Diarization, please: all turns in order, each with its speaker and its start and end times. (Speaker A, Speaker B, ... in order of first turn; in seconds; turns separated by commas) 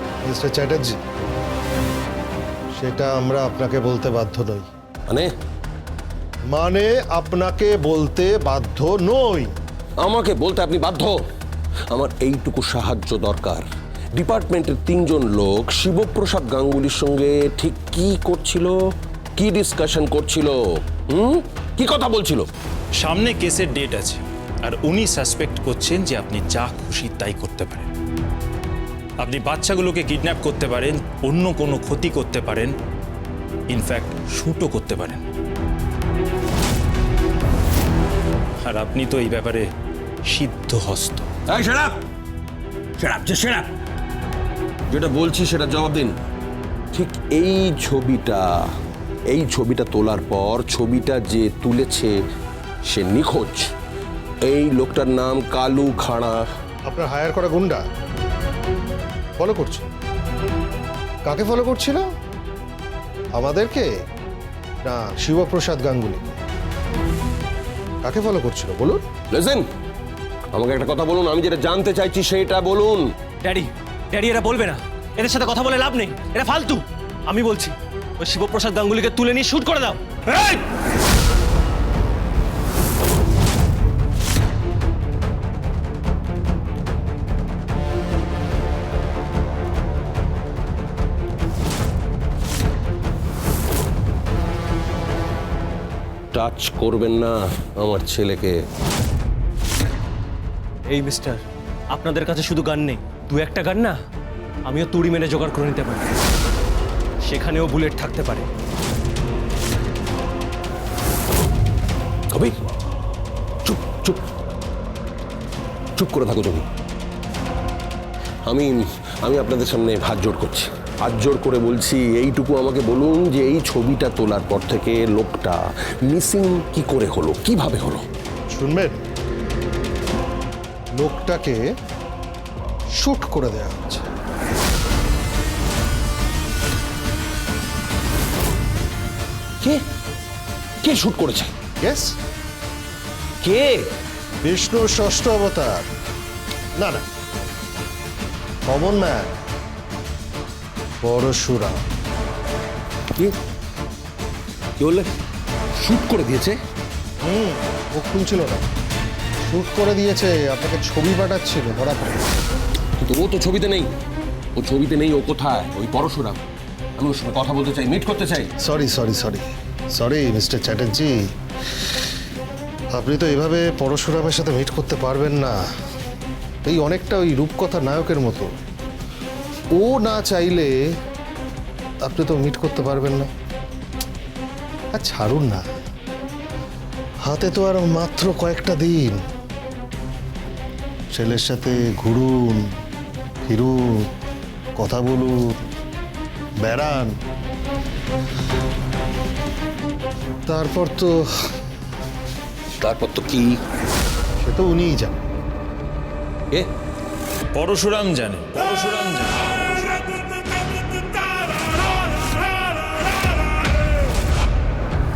Speaker A: 0.2-1.0, Speaker A: 2.7-4.7, Speaker A: 6.5-9.5, Speaker B: 10.0-11.2, Speaker B: 11.9-22.5, Speaker C: 23.0-27.9, Speaker C: 29.2-32.7, Speaker C: 33.7-35.2, Speaker C: 38.6-39.7, Speaker C: 40.2-41.3, Speaker B: 41.5-42.0, Speaker B: 43.0-43.7, Speaker B: 44.9-46.1, Speaker B: 46.9-48.7, Speaker B: 49.3-52.2, Speaker B: 52.8-53.7, Speaker B: 54.4-56.4, Speaker A: 56.9-57.8, Speaker A: 59.4-59.9, Speaker A: 61.2-62.0, Speaker A: 63.3-63.9, Speaker A: 64.8-66.4, Speaker A: 68.0-69.0, Speaker B: 69.3-69.7, Speaker B: 70.5-73.1, Speaker D: 73.4-80.6, Speaker B: 96.3-98.6, Speaker D: 100.8-104.0, Speaker D: 104.7-106.1, Speaker D: 107.2-108.5, Speaker B: 112.3-112.6, Speaker B: 113.6-114.2, Speaker B: 116.0-116.7, Speaker B: 118.5-128.0, Speaker A: 128.5-129.0, Speaker A: 131.0-131.7, Speaker A: 132.9-134.1, Speaker B: 140.8-141.5, Speaker A: 141.8-142.1, Speaker B: 143.4-143.8, Speaker A: 144.4-145.8, Speaker A: 146.8-147.0, Speaker A: 148.7-149.4, Speaker A: 151.0-151.8, Speaker B: 154.8-155.1, Speaker B: 155.8-156.6, Speaker A: 157.2-158.7, Speaker A: 159.4-162.3, Speaker B: 163.0-163.9, Speaker B: 164.5-166.4, Speaker B: 167.0-168.5, Speaker A: 168.6-171.3, Speaker A: 172.9-175.6, Speaker A: 176.6-178.5, Speaker A: 179.7-180.8, Speaker A: 182.0-183.3, Speaker A: 184.9-185.6, Speaker A: 187.2-189.2, Speaker A: 191.1-192.7, Speaker A: 193.4-194.1, Speaker A: 194.8-195.5, Speaker A: 196.6-197.2, Speaker A: 200.4-201.3, Speaker B: 202.8-203.6, Speaker A: 204.4-205.2, Speaker C: 207.5-209.7